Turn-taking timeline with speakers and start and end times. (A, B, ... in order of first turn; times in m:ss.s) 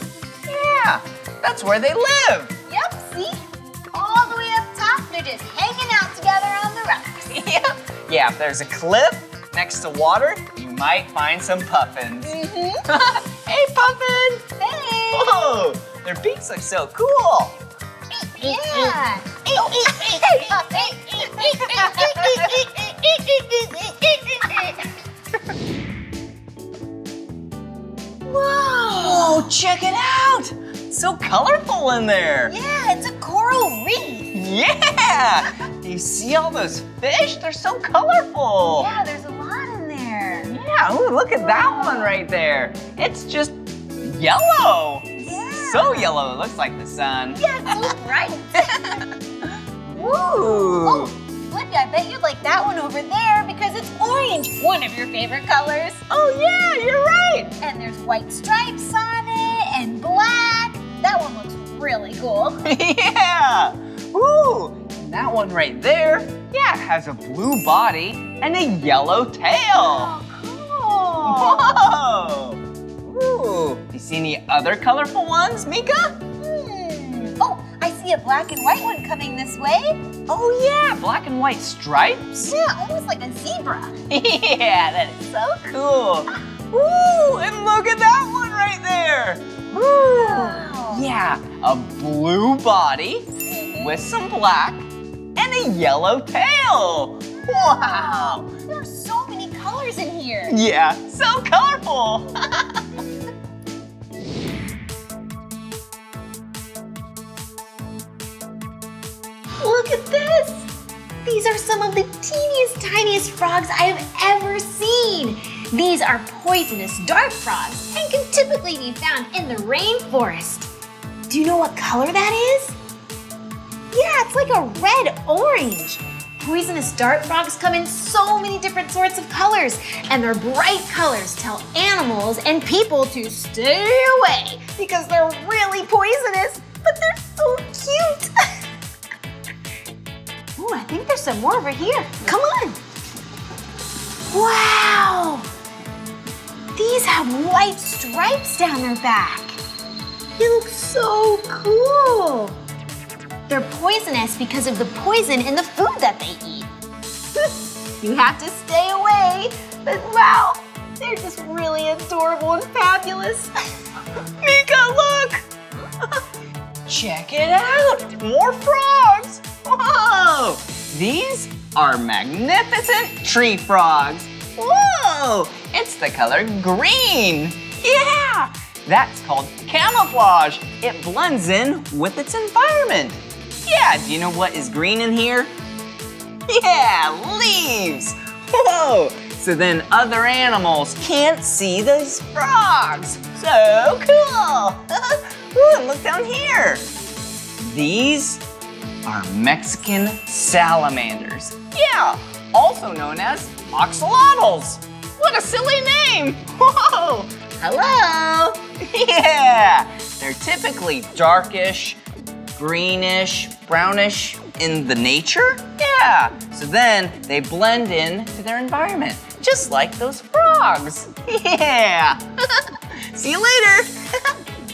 0:00.5-0:02.5 A
0:02.7-0:07.8 B
0:08.1-0:14.4 A
0:12.2-0:12.9 B
0:14.4-0:15.6 B
0:15.1-0:17.6 A
0:18.1-0:24.8 B
0:18.4-0:19.0 A
0:19.6-0:22.7 A
0:28.3-0:29.5 B
0:28.9-0:32.5 A
0:32.5-0:34.4 B
0:34.3-0:38.9 A
0:38.7-0:40.6 B
0:40.5-0:47.5 A
0:41.2-0:42.2 B
0:45.2-0:46.2 B
0:47.4-0:49.1 B
0:48.7-0:49.0 A
0:49.9-0:56.1 B
0:50.0-0:51.1 A
0:56.1-0:57.6 A
0:57.6-1:02.7 B
1:02.6-1:10.1 A
1:09.7-1:11.8 B
1:11.2-1:16.2 A
1:16.4-1:20.1 B
1:20.3-1:22.5 A
1:22.4-1:24.0 B
1:24.1-1:38.5 A
1:29.8-1:31.1 B
1:33.5-1:34.0 B
1:37.5-1:40.6 B
1:40.5-1:42.8 A
1:49.6-1:50.7 B
1:51.2-2:00.7 B
2:01.3-2:02.8 B
2:03.9-2:18.4 B
2:20.6-2:22.8 B
2:24.3-2:25.5 B
2:26.8-2:29.6 B
2:30.4-2:32.6 B
2:33.5-2:36.7 B
2:37.3-2:43.5 B
2:44.4-2:45.5 A
2:46.9-3:05.5 A
3:06.5-3:16.9 A
3:17.6-3:18.4 A
3:19.0-3:32.0 A
3:32.6-3:44.3 A